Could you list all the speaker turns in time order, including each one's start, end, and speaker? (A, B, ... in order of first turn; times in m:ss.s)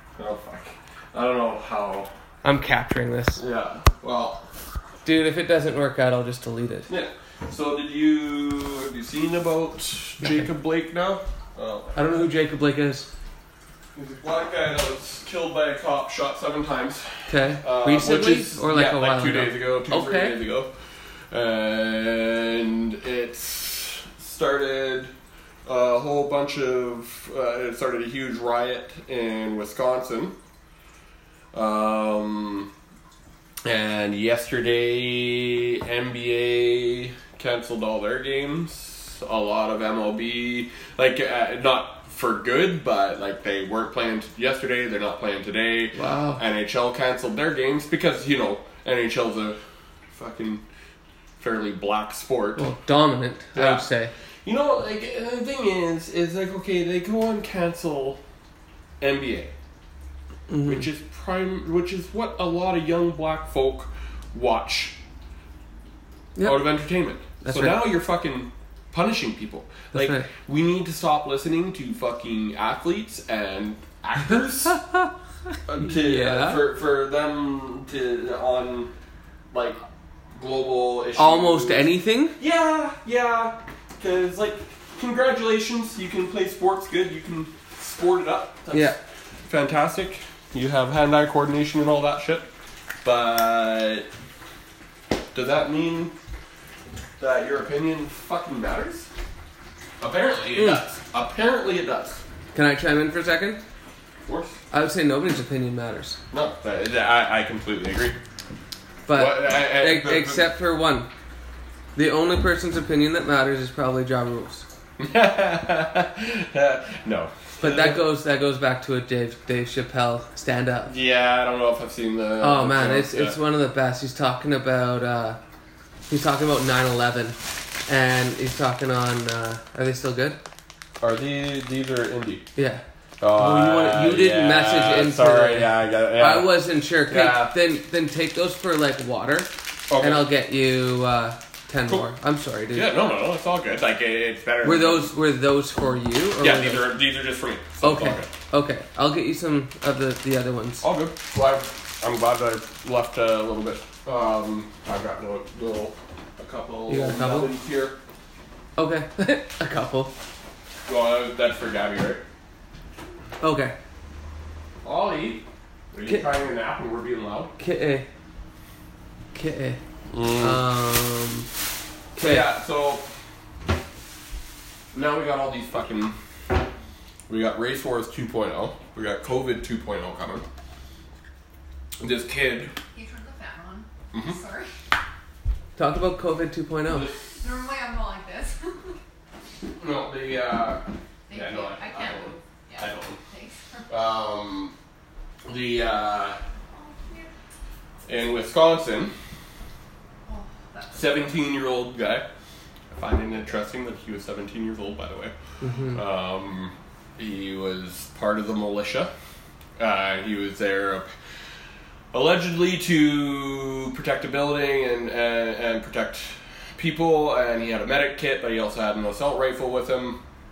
0:00.2-0:02.1 A
0:02.4-0:03.4 B
0:03.4-0:04.5 A
0:05.0-0:06.9 B
0:06.9-0:11.9 A
0:10.2-0:10.5 B
0:11.9-0:13.1 B
0:14.0-0:20.7 A
0:17.3-0:20.4 B
0:21.3-0:25.1 A
0:25.7-0:30.3 A
0:31.5-0:32.7 A
0:33.6-0:49.6 A
0:45.9-0:46.4 B
0:50.1-0:50.6 A
0:51.4-0:52.7 A
0:52.6-0:54.1 B
0:53.6-0:53.9 A
0:54.4-0:58.2 A
0:59.0-0:59.5 A
1:00.5-1:00.9 B
1:00.6-1:05.0 A
1:06.3-1:06.7 B
1:06.4-1:14.8 A
1:07.4-1:07.9 B
1:09.9-1:10.3 B
1:15.7-1:18.9 A
1:15.8-1:16.6 B
1:19.5-1:19.8 A
1:20.4-1:29.0 A
1:21.2-1:22.4 B
1:28.7-1:29.0 B
1:29.5-1:32.5 A
1:33.0-1:34.1 A
1:35.3-1:36.1 A
1:37.2-1:39.1 A
1:40.0-1:42.2 A
1:40.6-1:40.8 B
1:42.5-1:43.6 B
1:44.2-1:44.6 A
1:44.7-1:46.2 B
1:46.3-1:48.2 A
1:49.1-1:51.1 B
1:49.1-1:50.5 A
1:52.0-1:54.7 B
1:55.0-1:58.0 A
1:57.6-2:00.9 B
2:00.9-2:03.4 A
2:02.4-2:05.4 B
2:06.1-2:10.4 B
2:11.0-2:12.5 A
2:12.6-2:23.0 B
2:13.2-2:16.5 A
2:17.1-2:17.5 A
2:19.9-2:20.2 A
2:22.7-2:25.1 A
2:24.6-2:26.9 B
2:26.4-2:28.3 A
2:27.8-2:30.8 B
2:30.8-2:38.0 A
2:36.9-2:37.5 B
2:38.8-2:40.1 B
2:40.9-2:42.2 A
2:43.4-2:43.8 B
2:44.8-2:47.5 A
2:47.6-2:48.1 B
2:49.3-2:51.5 B
2:50.1-2:50.6 A
2:52.2-2:52.5 B
2:52.2-2:53.1 A
2:54.9-2:56.2 A
2:57.3-3:00.4 A
3:02.0-3:02.8 A
3:02.9-3:04.7 C
3:04.1-3:04.4 A
3:05.8-3:07.1 B
3:06.9-3:07.4 A
3:07.4-3:09.0 C
3:09.8-3:13.2 A
3:11.3-3:13.9 C
3:13.9-3:14.7 A
3:15.5-3:16.4 A
3:16.7-3:17.3 C
3:18.1-3:19.1 A
3:20.2-3:21.4 C
3:20.9-3:22.2 A
3:22.9-3:25.3 A
3:25.6-3:26.0 B
3:25.9-3:29.1 A
3:29.8-3:31.1 A
3:32.1-3:40.2 A